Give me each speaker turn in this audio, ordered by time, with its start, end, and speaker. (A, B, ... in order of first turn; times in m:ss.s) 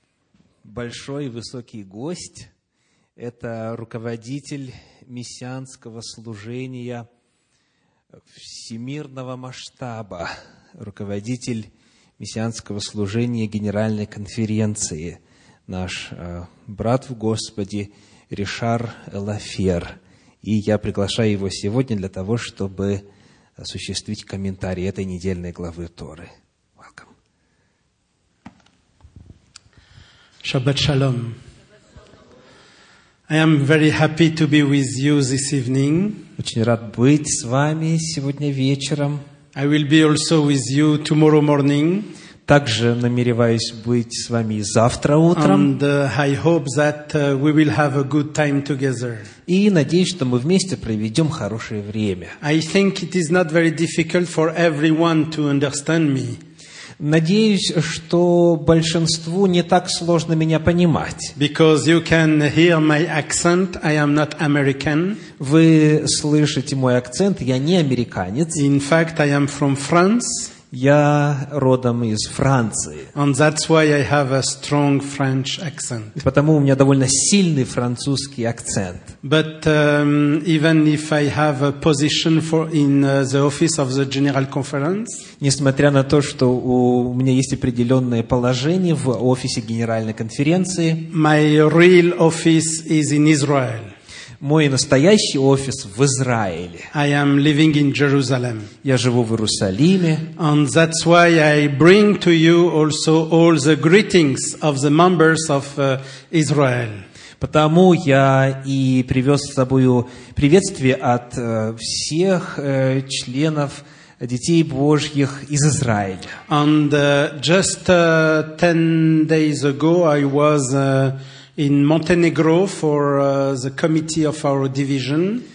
0:00.6-0:02.5 A
0:03.2-0:07.1 A
0:08.3-0:23.0 A
0:23.6-0:27.1 A
0:30.4-0:31.4 B
0:33.3-0:36.2 B
0:36.4-0:39.2 A
0:39.6-0:42.1 B
0:42.5-0:45.7 A
0:45.4-0:49.3 B
0:49.5-0:52.4 A
0:52.4-0:56.4 B
0:57.0-1:01.4 A
1:01.4-1:05.2 B
1:05.4-1:08.6 A
1:08.6-1:10.5 B
1:10.7-1:13.1 A
1:13.2-1:16.2 B
1:16.2-1:19.1 A
1:19.2-1:25.2 B
1:25.4-1:31.1 A
1:31.1-1:33.9 B
1:34.4-1:36.9 A
1:36.9-1:38.7 B
1:38.8-1:40.3 A
1:40.4-1:47.0 B
1:47.4-1:56.4 A
1:56.5-2:05.4 B